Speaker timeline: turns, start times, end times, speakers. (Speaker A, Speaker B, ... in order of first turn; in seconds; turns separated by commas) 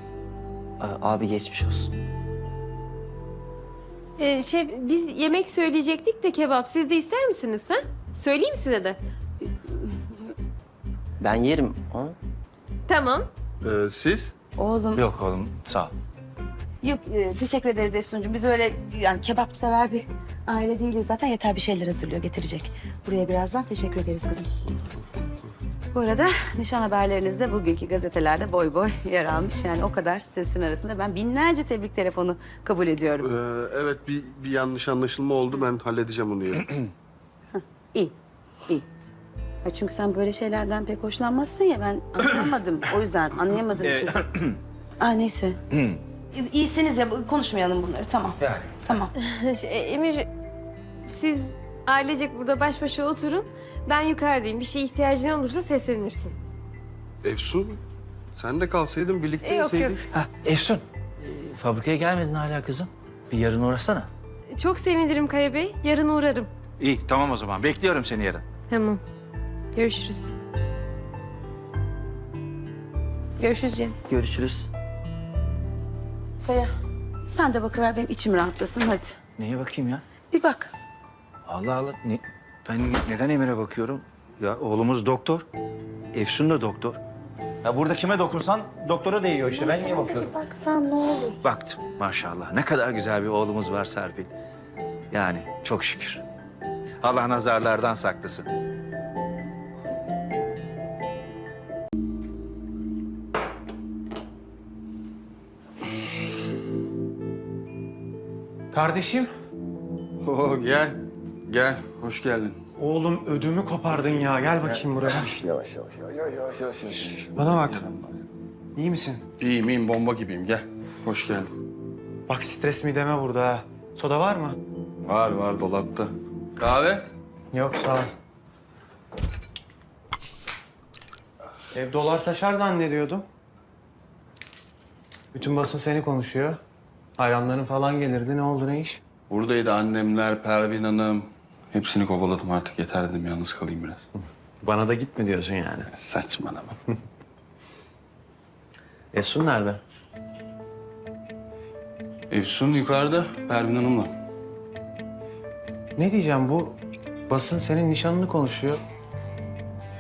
Speaker A: 0.8-1.9, Speaker B: 4.2-9.0, Speaker A: 11.2-12.2, Speaker B: 12.9-13.3, Speaker C: 13.6-14.3, Speaker D: 14.6-15.0, Speaker E: 14.9-15.9, Speaker D: 16.8-24.5, Speaker D: 25.9-33.3, Speaker C: 33.2-36.8, Speaker D: 37.5-38.1, Speaker D: 39.6-44.2, Speaker E: 43.8-44.6, Speaker D: 45.0-45.6, Speaker E: 45.7-46.0, Speaker D: 46.3-49.1, Speaker E: 48.4-48.8, Speaker B: 49.2-50.3, Speaker B: 51.1-56.4, Speaker C: 57.2-57.8, Speaker C: 58.4-60.1, Speaker B: 59.4-60.0, Speaker E: 60.1-64.1, Speaker B: 64.5-66.5, Speaker E: 66.8-68.4, Speaker B: 68.7-69.0, Speaker B: 69.8-70.3, Speaker B: 73.4-74.0, Speaker A: 74.1-74.7, Speaker D: 76.5-76.7, Speaker D: 77.3-79.2, Speaker E: 79.4-80.0, Speaker D: 80.3-80.7, Speaker E: 81.5-85.5, Speaker E: 86.1-87.0, Speaker F: 87.7-90.2, Speaker D: 89.5-91.4, Speaker E: 91.4-94.3, Speaker E: 95.1-96.2, Speaker E: 97.0-98.5, Speaker F: 108.7-109.3, Speaker C: 110.2-112.6, Speaker F: 112.8-115.4, Speaker C: 114.8-118.2, Speaker F: 117.3-117.9, Speaker F: 118.8-119.2, Speaker C: 119.4-121.5, Speaker F: 122.3-124.6, Speaker C: 125.1-127.1, Speaker F: 127.5-128.1, Speaker F: 131.7-133.2, Speaker F: 135.3-136.6, Speaker F: 137.2-139.0, Speaker C: 139.3-144.0, Speaker F: 144.6-145.9, Speaker C: 145.9-146.8, Speaker F: 149.1-149.8, Speaker C: 152.3-154.1, Speaker F: 156.0-158.8